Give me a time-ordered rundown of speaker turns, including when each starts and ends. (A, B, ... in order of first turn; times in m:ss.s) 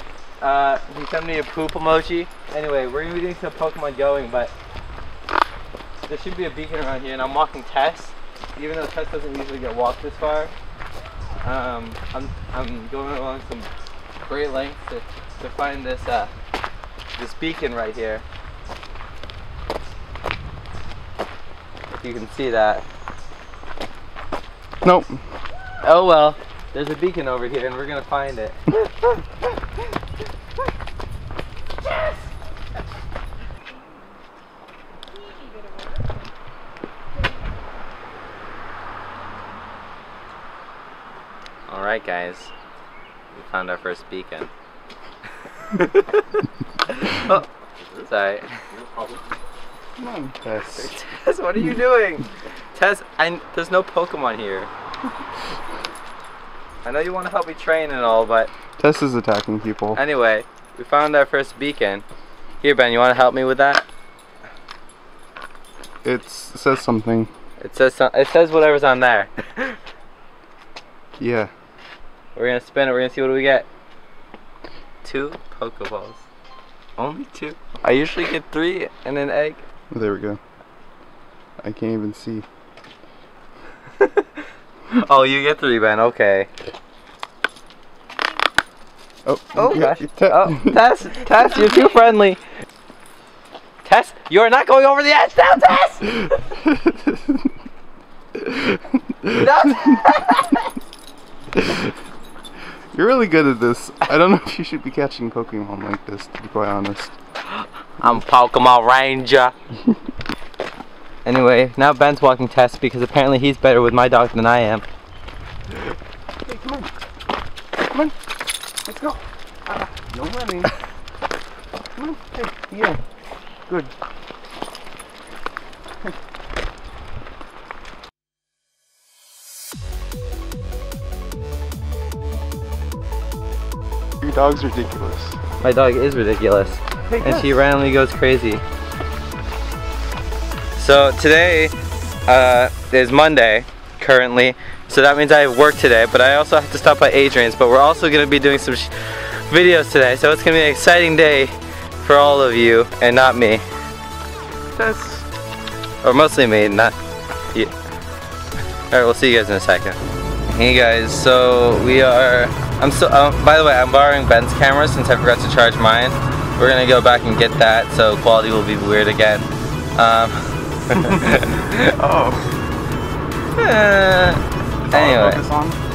0:00.4-0:04.5 A
0:06.0-0:10.5 A
0:11.4-0:16.3 A
0:17.1-0:18.2 A
0:21.9-0:22.8 A
0:24.8-0:25.2 B
0:25.8-0:29.1 A
0:41.7-0:42.5 A
0:43.3-0:44.5 A
0:45.6-0:49.1 A
0:50.0-0:51.0 B
0:50.7-0:54.7 A
0:56.8-0:58.5 A
0:58.8-1:00.0 B
0:59.9-1:02.0 A
1:02.6-1:03.9 A
1:06.0-1:07.3 B
1:07.6-1:09.8 A
1:11.2-1:11.5 B
1:12.3-1:13.6 A
1:15.0-1:16.2 A
1:17.0-1:19.6 A
1:19.9-1:20.4 B
1:21.6-1:22.4 B
1:24.0-1:26.5 A
1:29.2-1:30.8 B
1:29.5-1:32.4 A
1:33.8-1:36.5 A
1:36.6-1:37.3 B
1:38.4-1:39.9 B
1:39.3-1:40.7 A
1:41.6-1:41.9 B
1:42.9-1:47.1 B
1:48.0-1:49.5 A
1:51.2-1:54.8 A
1:56.4-1:56.9 B
1:58.8-2:00.7 B
2:02.0-2:03.0 B
2:14.2-2:15.4 B
2:15.6-2:18.6 A
2:17.1-2:17.5 B
2:20.8-2:21.7 A
2:22.3-2:33.6 A
2:34.7-2:35.2 B
2:36.0-2:37.0 A
2:38.9-2:51.7 A
2:50.9-2:52.5 B
2:53.6-2:55.4 A
2:54.9-2:55.8 B